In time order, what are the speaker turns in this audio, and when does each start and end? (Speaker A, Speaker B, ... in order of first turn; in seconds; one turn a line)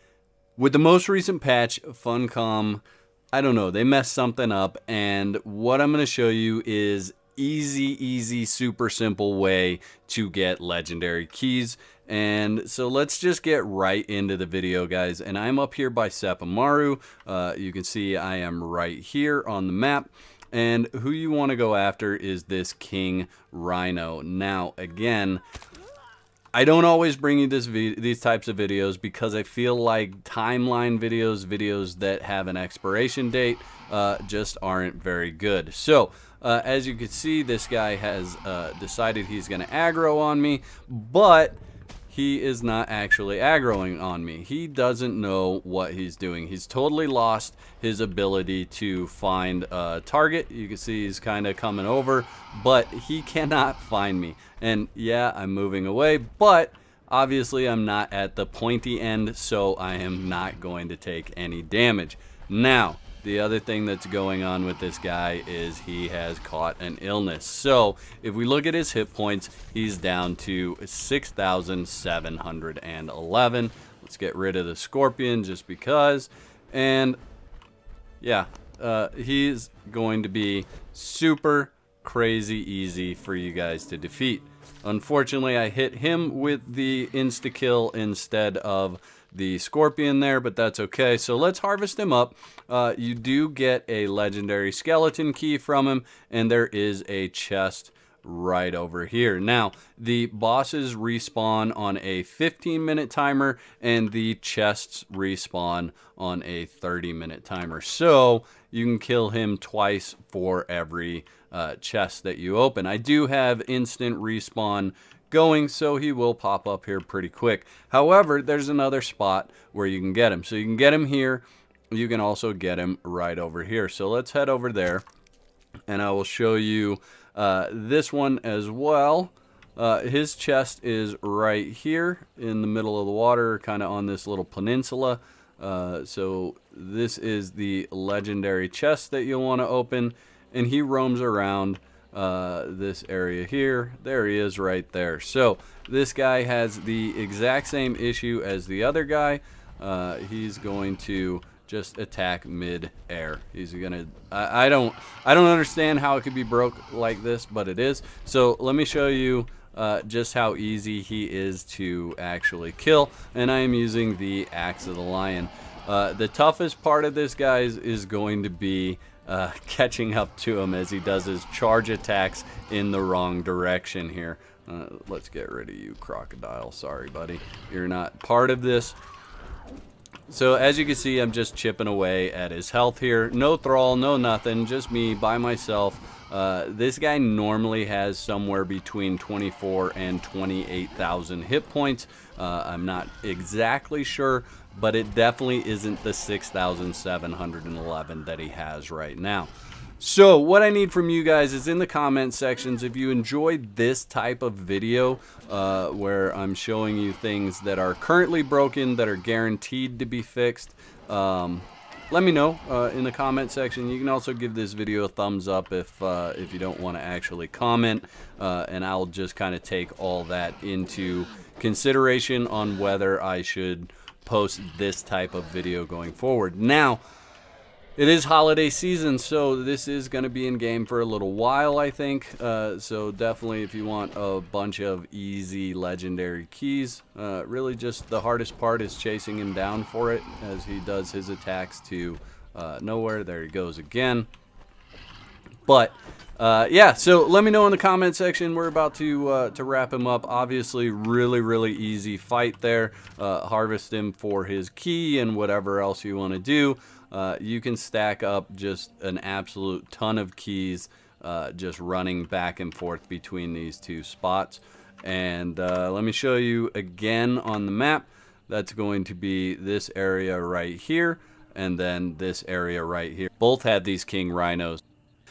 Speaker A: 0.6-25.4
Speaker A: 26.5-77.2
Speaker A: 78.2-125.0
Speaker A: 125.9-179.0
Speaker A: 180.3-227.0
Speaker A: 228.0-244.3
Speaker A: 245.7-274.8